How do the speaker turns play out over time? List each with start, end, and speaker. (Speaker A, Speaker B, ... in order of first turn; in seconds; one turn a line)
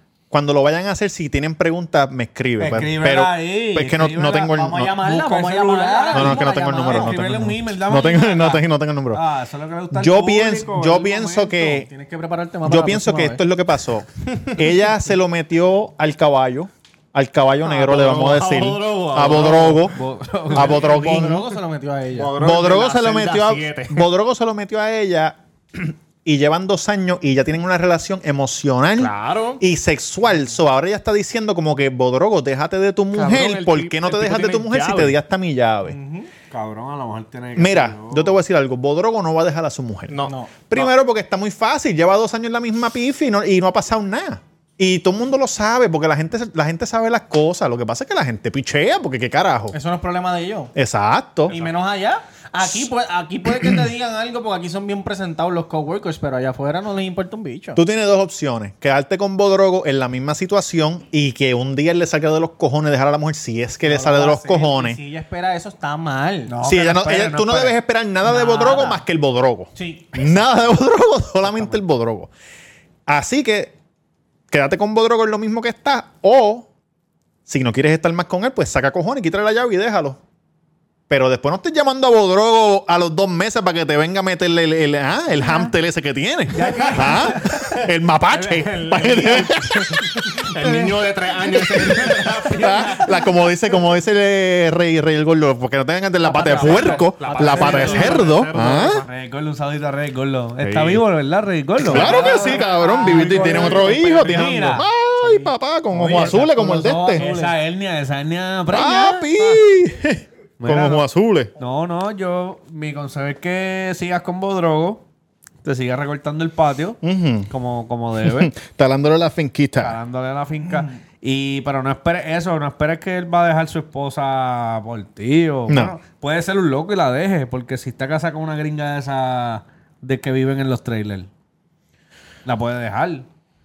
Speaker A: 0.3-5.0
Speaker B: 2.6-11.8
Speaker C: 4.6-7.2
Speaker A: 6.1-9.2
Speaker A: 9.9-11.9
Speaker C: 11.7-13.4
Speaker A: 12.6-19.9
Speaker D: 17.7-19.9
Speaker B: 19.2-20.8
Speaker A: 20.5-21.4
Speaker C: 20.5-22.3
Speaker D: 22.1-24.1
Speaker A: 22.4-36.0
Speaker D: 29.0-29.6
Speaker D: 33.1-35.1
Speaker C: 35.9-36.3
Speaker B: 36.5-38.4
Speaker A: 37.5-49.8
Speaker D: 40.1-40.9
Speaker C: 40.2-40.5
Speaker C: 49.7-50.7
Speaker A: 50.7-51.5
Speaker D: 51.5-51.7
Speaker C: 51.5-57.8
Speaker A: 57.7-65.0
Speaker C: 63.9-66.5
Speaker B: 66.5-67.8
Speaker A: 66.6-72.3
Speaker C: 68.2-69.0
Speaker C: 69.8-70.2
Speaker A: 73.1-73.7
Speaker A: 74.5-76.7
Speaker A: 77.5-80.2
Speaker A: 81.1-90.5
Speaker B: 86.5-87.4
Speaker D: 88.3-93.1
Speaker A: 91.7-99.0
Speaker D: 96.2-99.1
Speaker C: 96.4-98.4
Speaker B: 97.6-98.1
Speaker B: 99.0-104.8
Speaker D: 100.6-101.0
Speaker A: 101.8-107.2
Speaker D: 101.8-102.5
Speaker C: 102.0-104.4
Speaker D: 103.1-103.8
Speaker C: 105.2-107.6
Speaker B: 106.0-106.4
Speaker B: 107.1-109.2
Speaker A: 108.7-111.5
Speaker B: 110.6-111.0
Speaker B: 111.6-115.0
Speaker B: 115.6-117.0
Speaker A: 117.0-117.5
Speaker B: 117.5-118.5
Speaker A: 118.2-120.0
Speaker B: 119.8-131.3
Speaker A: 125.7-126.0
Speaker B: 132.4-133.2